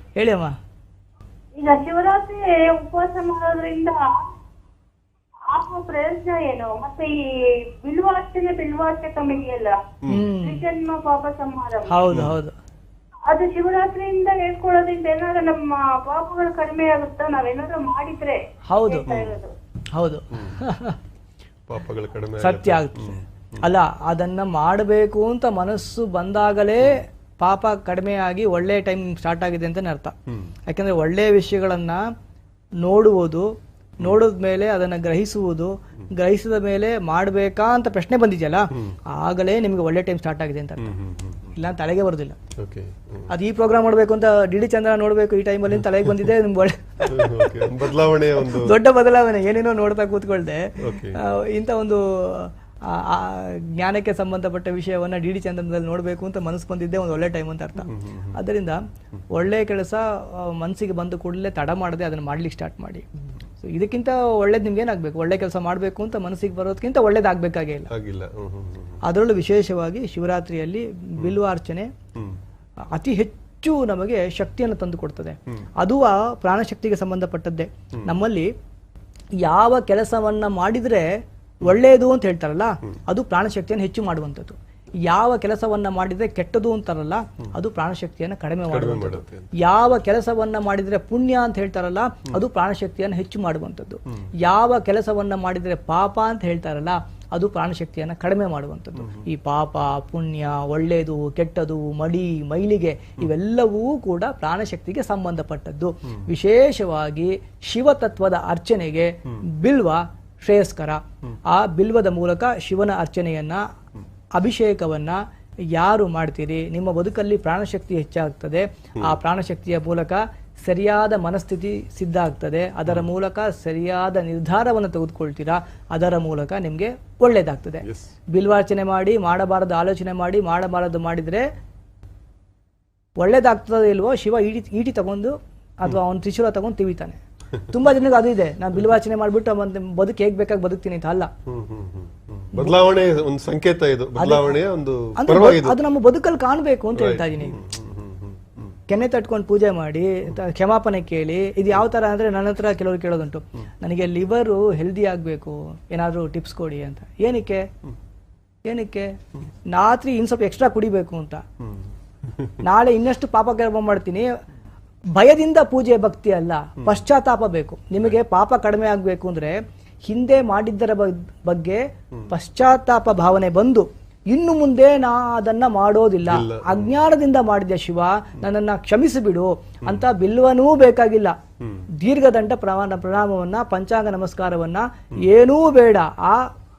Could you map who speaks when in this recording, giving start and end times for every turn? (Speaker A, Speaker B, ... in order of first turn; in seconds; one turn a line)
Speaker A: 0.2-0.5
Speaker B: 1.6-4.3
Speaker B: 5.5-9.8
Speaker C: 10.0-10.3
Speaker A: 10.1-10.7
Speaker B: 10.4-12.1
Speaker A: 11.9-12.5
Speaker C: 12.1-12.4
Speaker B: 13.3-19.5
Speaker A: 18.7-19.2
Speaker C: 19.1-19.4
Speaker A: 19.9-21.0
Speaker C: 20.3-20.6
Speaker C: 21.7-23.7
Speaker A: 22.4-30.2
Speaker A: 30.7-32.0
Speaker A: 32.8-33.5
Speaker A: 34.0-41.0
Speaker C: 40.8-41.5
Speaker A: 41.5-42.4
Speaker C: 42.6-43.3
Speaker A: 43.3-58.8
Speaker C: 47.1-48.8
Speaker C: 50.8-51.2
Speaker C: 57.9-58.3
Speaker A: 59.3-63.1
Speaker A: 63.6-67.9
Speaker C: 67.9-69.0
Speaker A: 69.1-71.9
Speaker A: 73.0-78.5
Speaker A: 79.4-81.0
Speaker A: 81.6-113.6
Speaker C: 88.7-89.5
Speaker A: 114.4-115.2
Speaker A: 115.8-131.4
Speaker C: 127.8-128.1
Speaker A: 133.2-141.3
Speaker C: 141.5-145.8
Speaker A: 144.2-144.6
Speaker A: 145.2-147.6
Speaker C: 147.0-148.7
Speaker A: 148.9-157.7
Speaker A: 158.7-161.4
Speaker C: 162.3-162.6
Speaker A: 162.6-164.3
Speaker A: 165.2-169.6
Speaker A: 170.1-181.3
Speaker C: 176.3-176.9
Speaker C: 181.6-181.8
Speaker A: 182.0-186.4